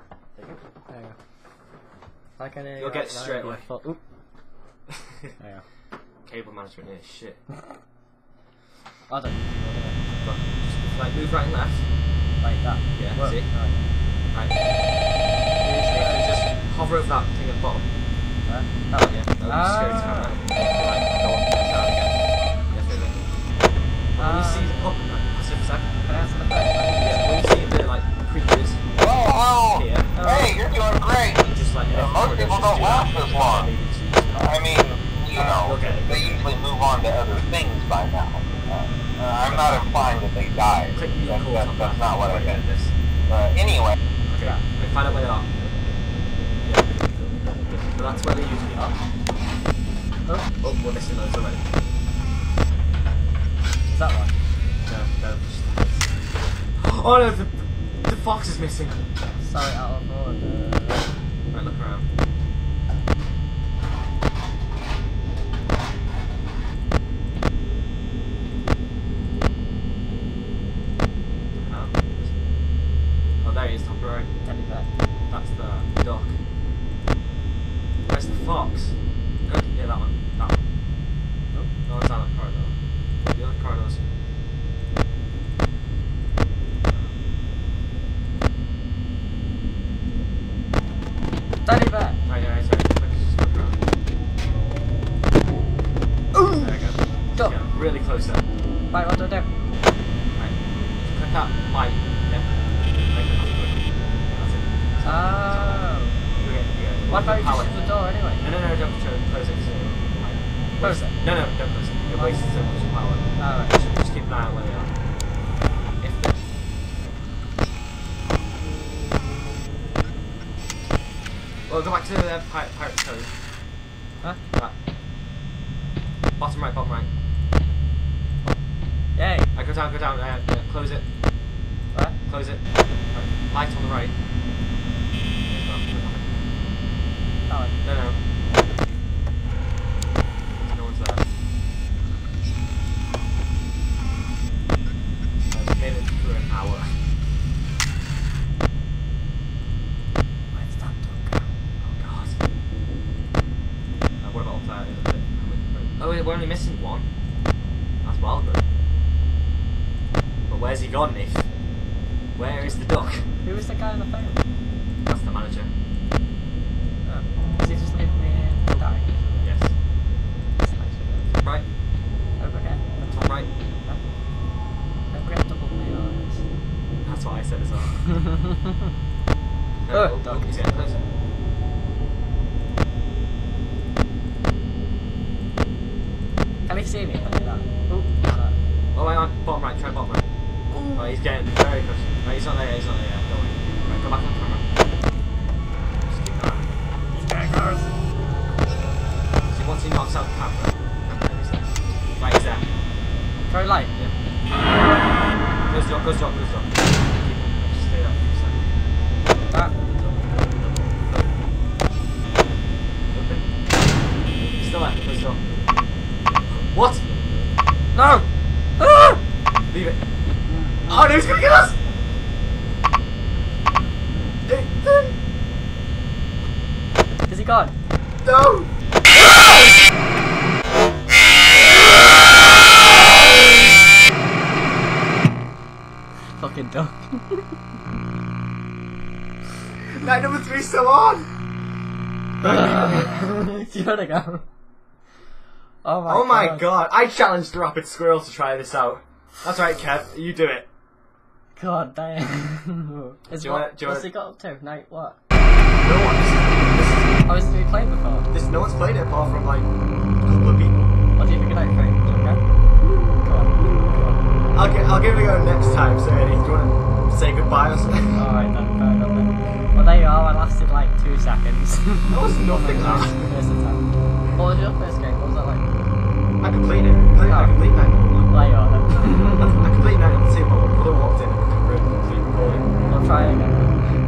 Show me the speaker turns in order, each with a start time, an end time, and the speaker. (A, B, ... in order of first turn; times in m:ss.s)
0:00.9-0:01.2 A
0:02.4-0:04.0 A
0:02.8-0:03.6 B
0:05.4-0:05.6 A
0:06.2-0:07.4 B
0:09.1-0:10.0 A
0:10.2-0:11.9 B
0:12.4-0:13.8 A
0:12.9-0:13.5 B
0:15.6-0:16.3 A
0:15.9-0:17.9 B
0:18.4-0:20.4 A
0:19.0-0:22.2 B
0:22.7-0:23.2 B
0:24.1-0:25.9 B
0:24.2-0:24.9 A
0:26.0-0:27.6 A
0:27.0-0:28.9 B
0:29.0-0:33.7 C
0:29.7-0:30.2 B
0:30.2-0:30.6 A
0:31.4-0:34.6 B
0:34.3-0:42.6 C
0:35.3-0:36.5 B
0:39.4-0:40.2 B
0:40.9-0:42.9 B
0:43.3-0:44.0 C
0:44.3-0:45.5 B
0:44.4-0:44.6 A
0:46.6-0:47.1 B
0:47.6-0:49.0 B
0:50.6-0:51.6 B
0:53.9-0:54.3 A
0:54.8-0:56.1 B
0:56.7-0:59.0 B
0:59.4-1:01.1 A
1:01.5-1:02.1 B
1:11.6-1:12.3 B
1:13.4-1:14.3 B
1:14.4-1:14.9 A
1:15.3-1:16.4 B
1:18.1-1:20.6 B
1:21.8-1:22.7 B
1:23.2-1:24.0 B
1:31.6-1:32.2 A
1:32.2-1:33.8 B
1:36.3-1:36.7 A
1:36.5-1:38.4 B
1:38.9-1:39.5 A
1:40.3-1:42.6 B
1:43.1-1:54.9 B
1:45.0-1:46.2 A
1:47.1-1:48.4 A
1:50.8-1:52.4 A
1:53.4-1:53.8 A
1:56.0-1:57.2 B
2:01.7-2:03.3 B
2:06.4-2:07.1 B
2:09.1-2:09.5 A
2:09.5-2:11.1 B
2:12.2-2:14.1 B
2:15.4-2:16.3 B
2:17.5-2:17.8 A
2:17.8-2:18.2 B
2:20.6-2:21.2 B
2:25.5-2:27.0 B
2:30.5-2:31.5 A
2:31.8-2:32.4 B
2:34.2-2:37.1 B
2:38.0-2:38.6 B
2:40.5-2:41.5 B
2:42.3-2:43.2 B
2:43.4-2:44.4 A
2:45.0-2:45.7 B
2:47.0-2:49.5 A
2:49.4-2:49.7 B
2:50.6-2:51.3 A
2:51.3-2:51.6 B
2:52.4-2:54.0 A
2:53.0-2:53.5 B
2:55.1-2:56.4 A
2:57.0-2:58.2 B
2:58.1-2:58.5 A
2:59.8-3:01.0 B
2:59.9-3:00.6 A
3:06.7-3:08.6 A
3:08.9-3:10.2 B
3:10.7-3:11.1 A
3:10.9-3:14.6 B
3:16.0-3:16.7 B
3:17.1-3:17.9 A
3:19.5-3:22.6 B
3:23.5-3:23.9 A
3:25.7-3:28.7 B
3:29.5-3:29.7 A
3:29.8-3:31.3 B
3:33.1-3:33.6 B
3:34.5-3:35.4 B
3:36.5-3:37.1 B
3:37.9-3:38.2 A
3:38.8-3:39.2 A
3:39.7-3:40.0 B
3:40.5-3:41.0 A
3:40.8-3:41.8 B
3:44.4-3:45.1 B
3:47.3-3:47.7 A
3:48.2-3:48.7 B
3:56.3-3:57.5 A
3:59.9-4:01.3 B
4:02.4-4:04.4 A
4:02.4-4:03.1 B
4:05.8-4:06.7 A
4:06.0-4:10.6 B
4:11.6-4:15.2 A
4:13.4-4:14.1 B
4:15.8-4:17.2 B
4:17.2-4:18.3 A
4:18.3-4:19.7 B
4:20.2-4:20.9 B
4:21.2-4:24.2 A
4:24.5-4:28.2 B
4:28.1-4:35.7 A
4:32.1-4:33.3 B
4:36.4-4:38.3 B
4:37.2-4:37.6 A
4:38.3-4:39.7 A
4:39.2-4:42.7 B
4:42.8-4:43.8 A